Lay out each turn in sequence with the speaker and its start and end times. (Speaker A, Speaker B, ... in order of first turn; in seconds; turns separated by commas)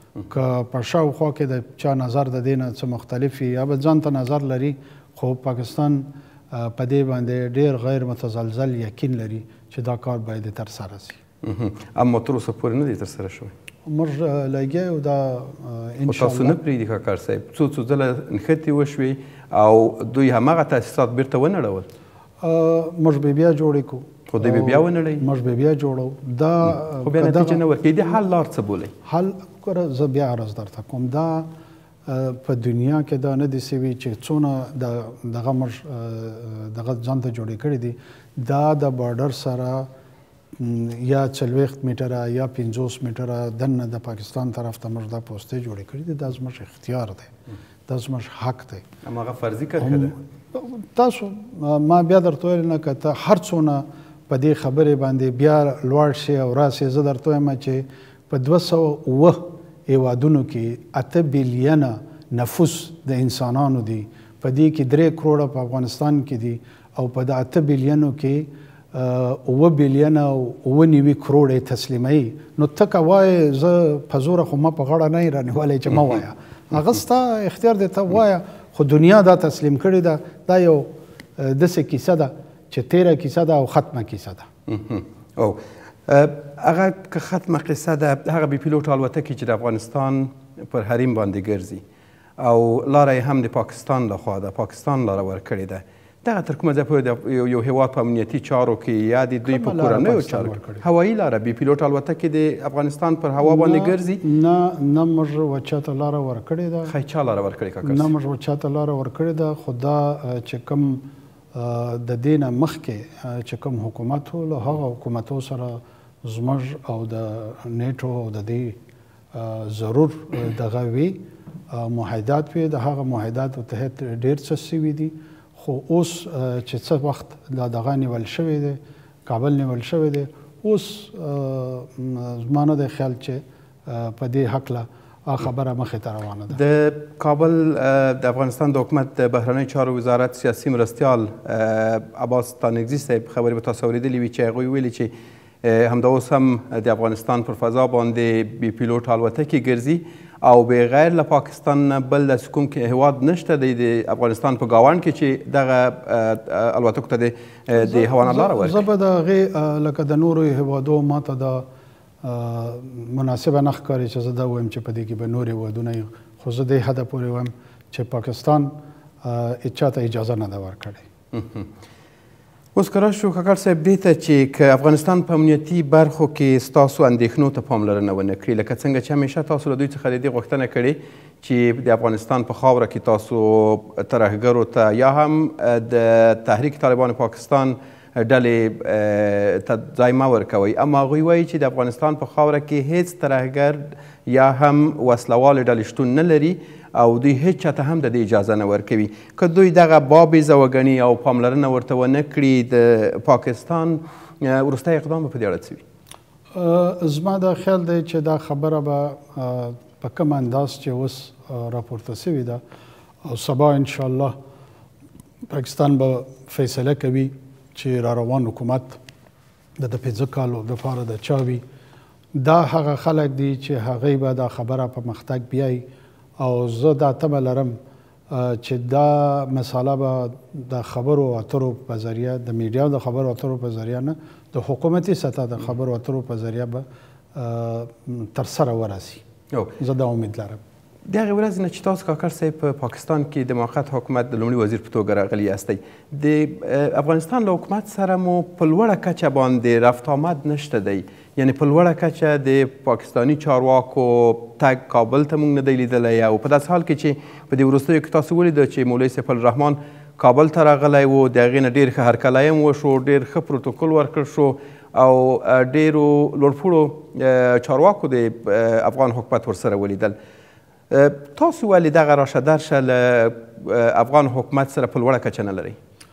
Speaker A: 0.3-11.2, Speaker B: 11.4-13.5, Speaker A: 13.8-16.6, Speaker B: 16.1-21.9, Speaker A: 22.4-27.6, Speaker B: 24.3-25.2, Speaker B: 26.9-28.9, Speaker A: 29.0-31.5, Speaker A: 32.0-39.9, Speaker A: 40.5-47.3, Speaker A: 47.9-48.8, Speaker B: 49.0-50.1, Speaker A: 49.8-84.5, Speaker B: 84.7-91.8, Speaker B: 92.4-104.2, Speaker A: 99.5-100.8, Speaker A: 103.4-106.9, Speaker B: 106.9-108.1, Speaker A: 107.8-118.8, Speaker A: 119.3-136.6, Speaker B: 136.5-145.1, Speaker B: 145.6-158.8, Speaker A: 157.8-161.7, Speaker A: 162.2-171.0, Speaker B: 171.3-171.7, Speaker B: 172.7-205.8, Speaker A: 206.5-212.6, Speaker A: 213.2-214.3, Speaker A: 215.5-219.0, Speaker A: 219.8-221.6, Speaker A: 222.3-225.8, Speaker A: 226.4-227.8, Speaker A: 228.3-239.2, Speaker A: 239.8-240.6, Speaker B: 241.1-270.1, Speaker B: 270.9-275.8